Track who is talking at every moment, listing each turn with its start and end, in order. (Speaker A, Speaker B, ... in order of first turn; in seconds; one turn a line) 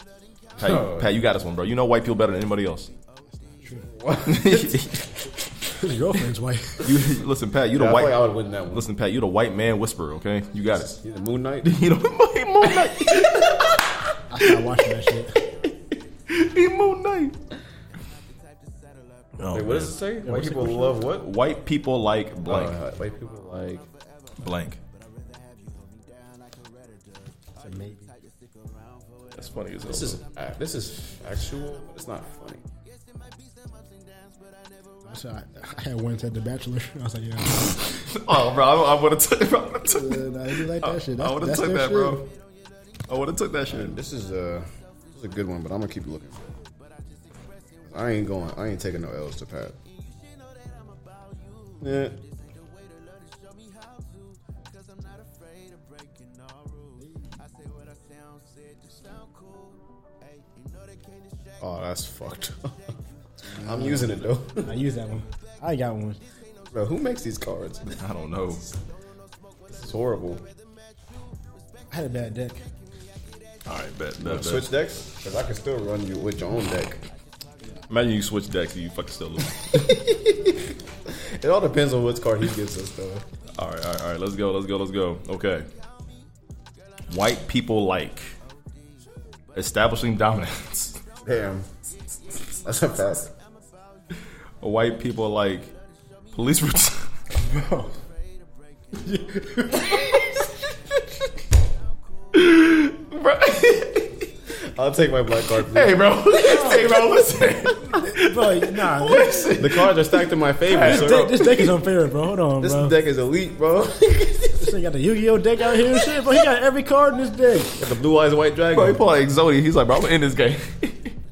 Speaker A: 0.6-2.9
Speaker B: 0.6-1.2
Speaker C: 3.5-3.9
Speaker B: 3.9-4.7
Speaker A: 4.2-5.1
Speaker C: 5.7-6.9
Speaker A: 6.8-10.9
Speaker B: 7.7-8.9
Speaker B: 10.8-11.8
Speaker A: 11.6-14.1
Speaker C: 14.3-15.4
Speaker A: 16.3-17.4
Speaker A: 19.4-20.0
Speaker B: 19.5-21.3
Speaker C: 20.2-21.0
Speaker A: 21.2-22.8
Speaker B: 22.4-23.9
Speaker A: 24.4-24.8
Speaker C: 27.6-28.1
Speaker A: 29.3-30.2
Speaker B: 29.8-32.6
Speaker C: 35.0-37.9
Speaker A: 38.1-42.2
Speaker C: 39.9-42.2
Speaker A: 43.1-44.0
Speaker B: 43.7-46.6
Speaker B: 47.9-49.8
Speaker B: 51.8-52.1
Speaker B: 61.6-62.9
Speaker B: 63.5-64.7
Speaker C: 63.5-66.2
Speaker B: 66.7-68.0
Speaker A: 68.0-68.7
Speaker B: 69.7-70.4
Speaker C: 71.9-72.6
Speaker A: 73.7-74.8
Speaker B: 74.2-77.0
Speaker A: 77.9-79.8
Speaker B: 79.8-83.2
Speaker A: 83.5-85.7
Speaker A: 87.1-88.3
Speaker A: 89.5-91.0
Speaker B: 91.2-91.7
Speaker B: 92.3-93.3
Speaker A: 94.6-95.7
Speaker A: 96.3-97.1
Speaker C: 97.4-97.9
Speaker C: 99.0-99.9
Speaker A: 102.3-104.3
Speaker B: 104.6-106.2
Speaker A: 105.7-111.7
Speaker C: 106.4-106.8
Speaker C: 107.9-109.5
Speaker B: 109.6-111.5
Speaker C: 110.7-113.0
Speaker B: 112.6-114.7
Speaker C: 114.6-117.8
Speaker B: 117.8-119.0
Speaker A: 118.7-121.2